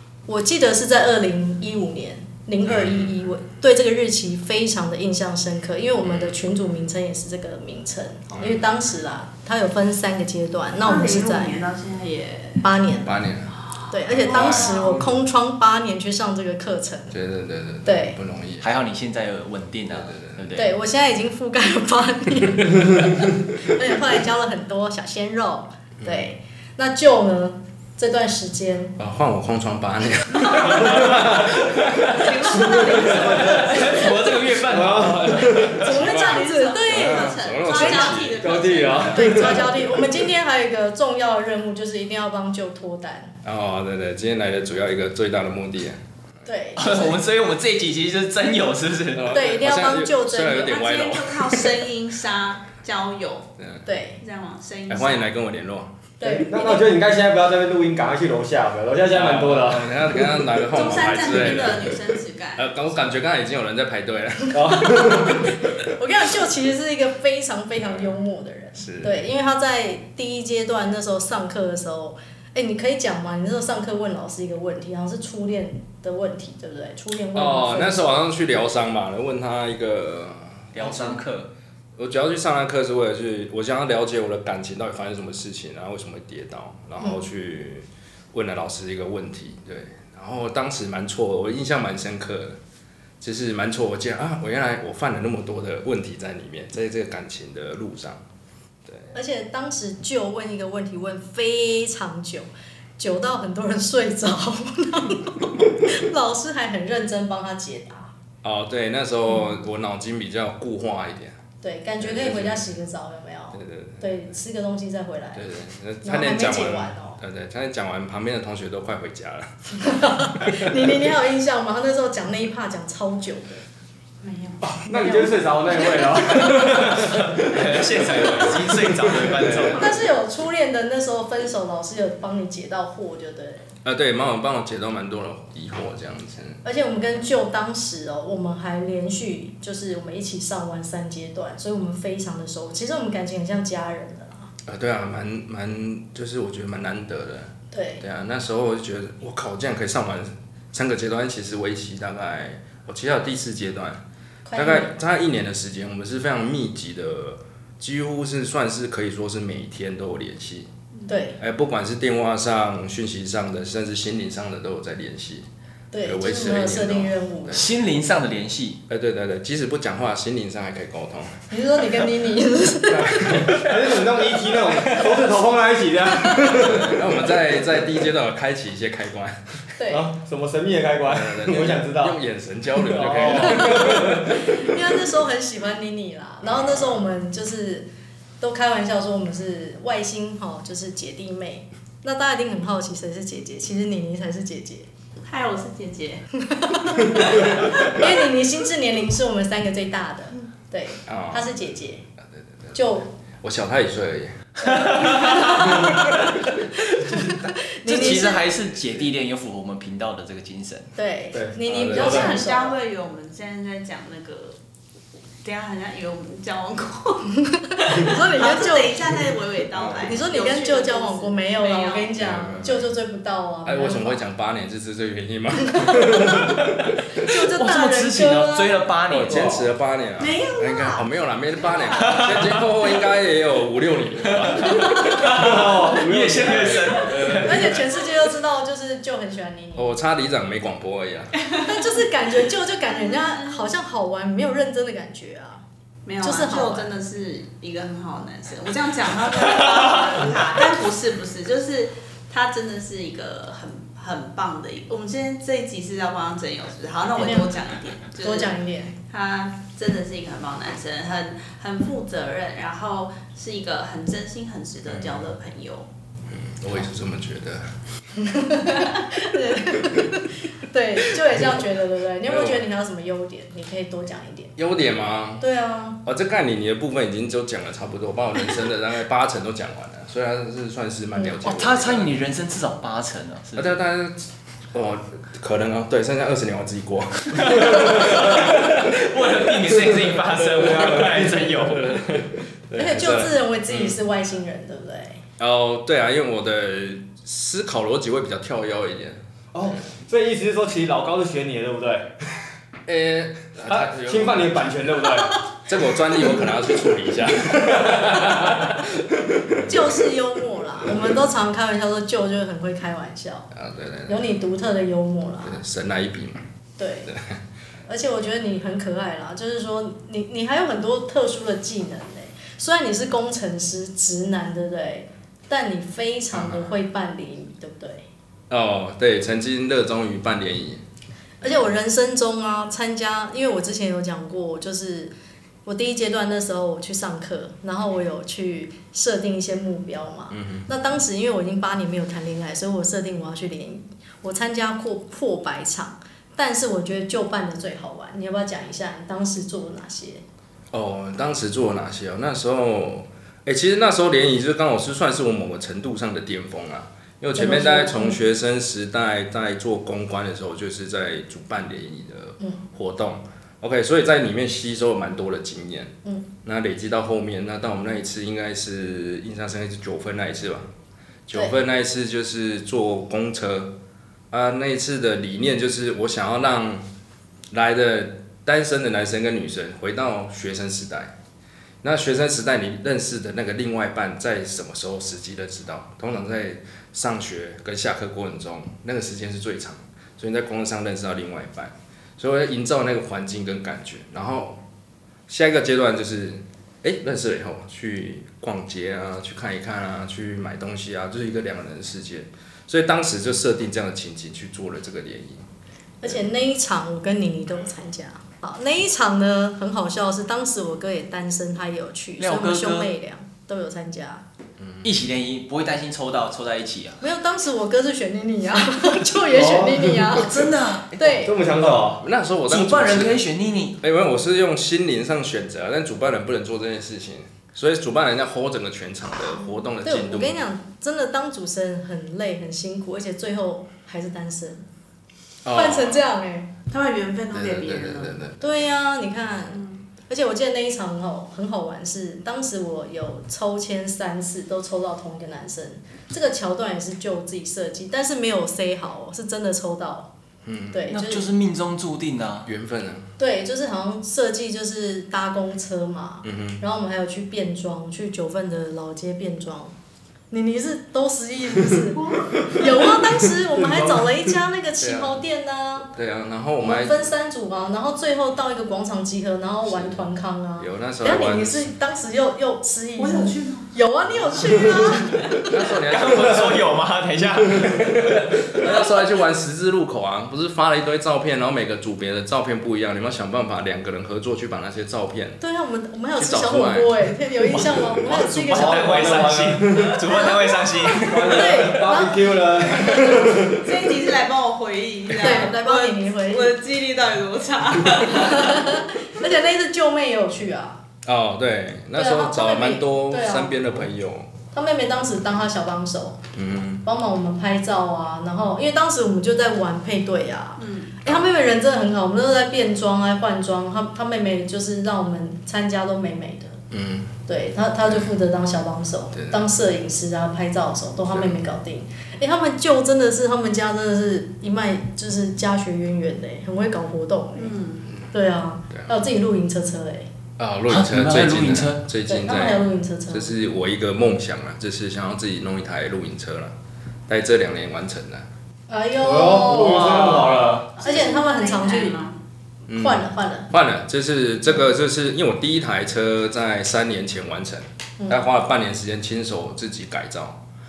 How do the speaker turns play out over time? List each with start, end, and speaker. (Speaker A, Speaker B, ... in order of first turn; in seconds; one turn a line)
Speaker A: 0.2-11.6
Speaker B: 2.6-3.1
Speaker B: 6.0-6.3
Speaker B: 8.3-8.7
Speaker C: 10.8-12.6
Speaker A: 12.6-13.2
Speaker B: 13.0-13.5
Speaker C: 13.7-15.0
Speaker A: 13.9-17.1
Speaker B: 14.1-14.9
Speaker B: 17.1-18.6
Speaker A: 17.8-18.2
Speaker D: 18.6-20.7
Speaker B: 19.9-20.6
Speaker A: 20.6-28.9
Speaker B: 26.0-26.3
Speaker B: 29.0-32.2
Speaker C: 30.5-30.8
Speaker C: 32.0-34.3
Speaker E: 32.7-33.6
Speaker D: 33.3-35.7
Speaker E: 34.6-35.8
Speaker B: 35.0-38.5
Speaker A: 35.7-38.3
Speaker C: 35.8-39.6
Speaker E: 38.4-40.0
Speaker A: 39.1-43.3
Speaker B: 43.4-46.0
Speaker A: 46.4-47.2
Speaker D: 46.8-49.4
Speaker B: 49.1-51.8
Speaker A: 49.3-50.8
Speaker C: 50.5-53.5
Speaker A: 53.9-54.2
Speaker C: 54.2-55.3
Speaker B: 54.9-55.9
Speaker A: 56.2-56.9
Speaker E: 56.2-59.9
Speaker B: 59.1-62.0
Speaker C: 60.7-62.7
Speaker B: 62.5-65.3
Speaker E: 64.5-65.5
Speaker A: 64.7-78.1
Speaker B: 68.8-69.2
Speaker B: 77.3-81.2
Speaker D: 80.7-81.5
Speaker B: 82.0-92.6
Speaker B: 93.2-98.2
Speaker A: 99.1-108.1
Speaker B: 108.4-111.3
Speaker A: 111.6-115.5
Speaker B: 112.0-112.7
Speaker B: 113.5-114.0
Speaker B: 115.3-119.5
Speaker A: 116.0-117.2
Speaker A: 119.8-123.6
Speaker B: 120.4-120.8
Speaker C: 124.2-124.6
Speaker E: 124.6-129.8
Speaker A: 124.9-126.7
Speaker D: 126.4-130.0
Speaker A: 129.7-133.7
Speaker B: 133.8-136.6
Speaker A: 136.6-144.5
Speaker B: 144.7-154.0
Speaker A: 147.7-148.0
Speaker A: 154.4-154.9
Speaker B: 154.5-160.7
Speaker A: 161.1-161.4
Speaker B: 161.4-165.4
Speaker A: 165.9-167.6
Speaker B: 166.0-167.6
Speaker D: 167.5-168.8
Speaker B: 168.9-171.4
Speaker A: 171.5-173.5
Speaker B: 172.9-173.9
Speaker E: 173.5-177.0
Speaker A: 176.1-176.6
Speaker B: 176.5-179.4
Speaker A: 179.8-180.1
Speaker E: 179.9-182.2
Speaker B: 181.1-184.4
Speaker E: 182.8-184.2
Speaker A: 183.3-187.9
Speaker B: 186.4-187.0
Speaker A: 188.4-194.9
Speaker C: 195.2-196.2
Speaker A: 196.4-202.1
Speaker C: 197.3-198.0
Speaker B: 201.1-201.5
Speaker A: 202.7-203.1
Speaker B: 203.4-205.0
Speaker D: 204.6-206.5
Speaker A: 204.9-206.0
Speaker A: 206.9-208.5
Speaker D: 207.0-210.9
Speaker A: 210.9-212.8
Speaker E: 211.3-212.3
Speaker B: 211.7-212.2
Speaker C: 211.9-214.6
Speaker C: 215.4-222.2
Speaker A: 217.5-219.0
Speaker B: 219.7-220.2
Speaker A: 220.0-224.2
Speaker B: 222.2-222.9
Speaker B: 223.6-226.7
Speaker A: 225.8-226.3
Speaker A: 227.2-228.9
Speaker D: 227.5-229.6
Speaker B: 229.1-235.5
Speaker E: 229.2-229.6
Speaker C: 230.2-231.1
Speaker C: 231.6-232.2
Speaker D: 232.0-232.6
Speaker D: 234.2-237.8
Speaker A: 234.6-235.2
Speaker E: 235.1-237.1
Speaker B: 237.0-237.8
Speaker A: 237.4-239.9
Speaker B: 239.8-241.3
Speaker C: 241.4-241.7
Speaker A: 241.6-245.6
Speaker C: 242.8-243.7
Speaker C: 246.1-258.5
Speaker A: 246.2-246.9
Speaker A: 257.1-257.5
Speaker A: 258.2-258.9
Speaker C: 259.1-265.9
Speaker B: 264.9-265.3
Speaker B: 266.3-267.7
Speaker A: 268.2-274.6
Speaker B: 272.2-272.6
Speaker B: 274.6-275.4
Speaker A: 275.4-276.0
Speaker B: 276.0-282.1
Speaker D: 281.4-283.8
Speaker B: 283.6-289.0
Speaker D: 287.3-292.0
Speaker E: 289.9-291.8
Speaker B: 290.6-291.1
Speaker B: 291.6-294.0
Speaker A: 292.7-295.2
Speaker B: 295.4-299.2
Speaker E: 299.5-302.1
Speaker B: 302.9-304.7
Speaker E: 303.7-305.4
Speaker B: 305.6-310.0
Speaker E: 307.6-308.1
Speaker A: 309.6-313.5
Speaker B: 313.5-314.2
Speaker A: 314.1-315.6
Speaker B: 315.4-316.4
Speaker A: 316.8-317.1
Speaker B: 317.1-317.4
Speaker A: 317.9-328.1
Speaker B: 326.3-326.7
Speaker B: 328.5-330.8
Speaker B: 331.4-331.7
Speaker A: 331.4-335.1
Speaker A: 335.6-350.2
Speaker B: 340.3-340.7
Speaker B: 350.7-370.7
Speaker A: 357.4-358.2
Speaker B: 371.3-373.7
Speaker A: 371.3-371.6
Speaker B: 374.3-376.8
Speaker B: 377.5-381.1
Speaker B: 381.8-394.6
Speaker B: 395.3-405.4
Speaker A: 406.0-414.2
Speaker D: 412.2-412.9
Speaker B: 414.6-414.9
Speaker D: 414.8-417.0
Speaker A: 417.0-421.3
Speaker E: 419.3-419.9
Speaker D: 419.9-421.2
Speaker E: 421.2-422.0
Speaker B: 422.0-423.2
Speaker D: 422.5-423.8
Speaker B: 423.8-430.4
Speaker A: 429.8-434.6
Speaker B: 435.4-436.0
Speaker A: 435.5-436.5
Speaker C: 436.7-438.2
Speaker B: 437.3-438.6
Speaker A: 438.4-450.1
Speaker C: 439.5-439.8
Speaker B: 450.4-450.8
Speaker A: 450.7-451.3
Speaker D: 450.9-452.5
Speaker B: 452.4-453.1
Speaker A: 453.2-459.7
Speaker B: 456.2-456.6
Speaker A: 460.3-465.9
Speaker C: 462.0-462.4
Speaker E: 462.4-462.7
Speaker E: 463.5-464.1
Speaker B: 464.8-465.2
Speaker B: 465.9-467.1
Speaker A: 466.6-475.6
Speaker B: 469.6-470.0
Speaker B: 470.6-471.7
Speaker C: 473.0-473.7
Speaker B: 474.3-474.8
Speaker B: 475.4-476.7
Speaker D: 475.7-478.6
Speaker B: 477.9-485.4
Speaker A: 485.4-489.3
Speaker B: 486.1-486.9
Speaker D: 487.5-491.6
Speaker E: 488.5-490.2
Speaker E: 490.9-493.7
Speaker A: 491.0-493.2
Speaker C: 493.5-498.9
Speaker A: 495.2-496.6
Speaker A: 498.1-500.8
Speaker B: 501.0-504.3
Speaker A: 501.9-503.6
Speaker A: 504.5-506.2
Speaker B: 506.3-506.8
Speaker A: 506.8-516.6
Speaker C: 510.6-510.9
Speaker B: 516.7-517.1
Speaker A: 517.3-527.5
Speaker B: 517.9-518.1
Speaker B: 519.1-519.4
Speaker B: 521.1-521.5
Speaker C: 527.4-527.9
Speaker A: 528.1-530.1
Speaker B: 530.4-536.5
Speaker D: 530.7-531.8
Speaker A: 532.0-533.3
Speaker B: 537.1-538.3
Speaker A: 538.7-542.0
Speaker E: 539.0-540.7
Speaker C: 540.1-542.1
Speaker B: 542.7-550.4
Speaker A: 542.7-543.5